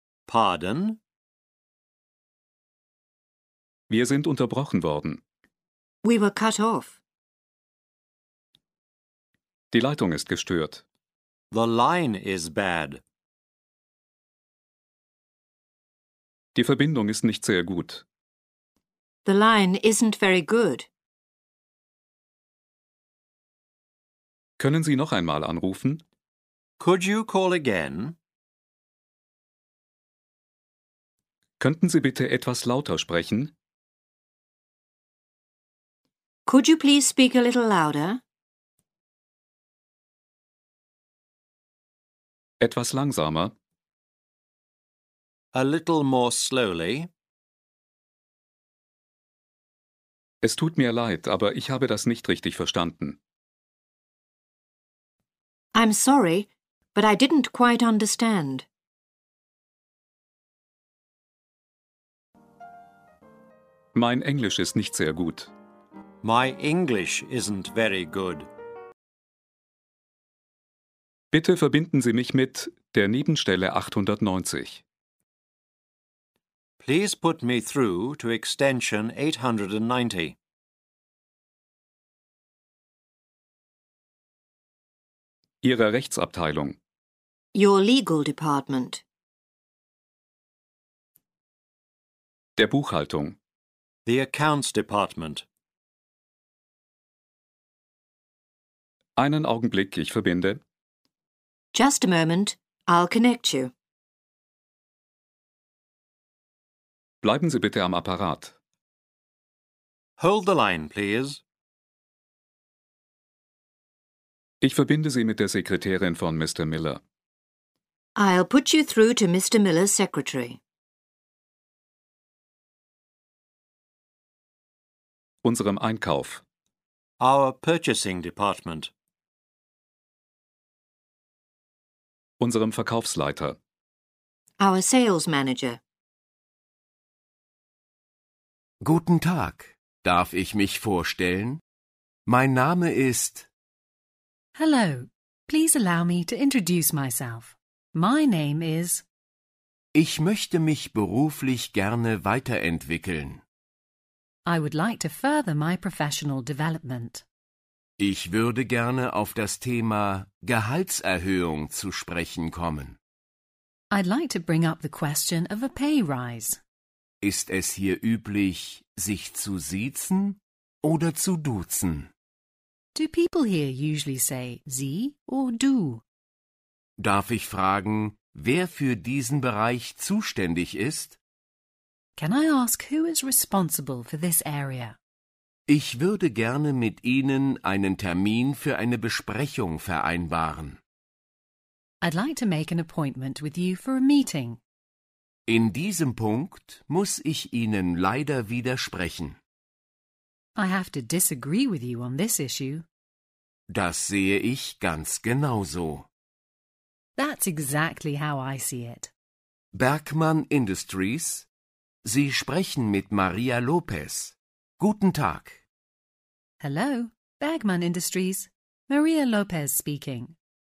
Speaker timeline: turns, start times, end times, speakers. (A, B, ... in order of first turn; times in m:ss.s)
0:00.3-0:01.0 A
0:03.9-0:05.2 B
0:06.0-0:07.0 C
0:09.7-0:10.8 B
0:11.5-0:13.0 A
0:16.5-0:18.0 B
0:19.2-0:20.9 C
0:24.6-0:26.0 B
0:26.8-0:28.2 A
0:31.6-0:33.5 B
0:36.4-0:38.2 C
0:42.6-0:43.5 B
0:45.5-0:47.1 A
0:50.4-0:53.2 B
0:55.7-0:58.6 C
1:03.9-1:05.5 B
1:06.2-1:08.5 A
1:11.3-1:14.8 B
1:16.8-1:20.4 A
1:25.6-1:26.8 B
1:27.5-1:29.0 C
1:32.6-1:33.4 B
1:34.0-1:35.4 A
1:39.2-1:40.6 B
1:41.7-1:43.7 C
1:47.2-1:48.5 B
1:50.2-1:51.4 A
1:54.6-1:57.0 B
1:58.2-2:00.6 C
2:05.4-2:06.4 B
2:07.2-2:08.9 A
2:12.4-2:13.6 B
2:14.6-2:15.8 C
2:18.8-2:21.6 D
2:22.2-2:23.5 D
2:24.5-2:29.0 E
2:29.9-2:33.4 D
2:34.4-2:37.2 E
2:38.0-2:43.0 D
2:43.9-2:46.6 E
2:47.2-2:52.1 D
2:52.9-2:56.0 E
2:57.0-3:01.2 D
3:02.2-3:05.0 E
3:05.7-3:10.8 D
3:12.0-3:14.6 E
3:15.5-3:19.4 D
3:20.6-3:22.8 E
3:23.7-3:26.1 D
3:27.2-3:29.1 E
3:29.7-3:31.5 D
3:32.0-3:35.6 D
3:36.6-3:40.3 E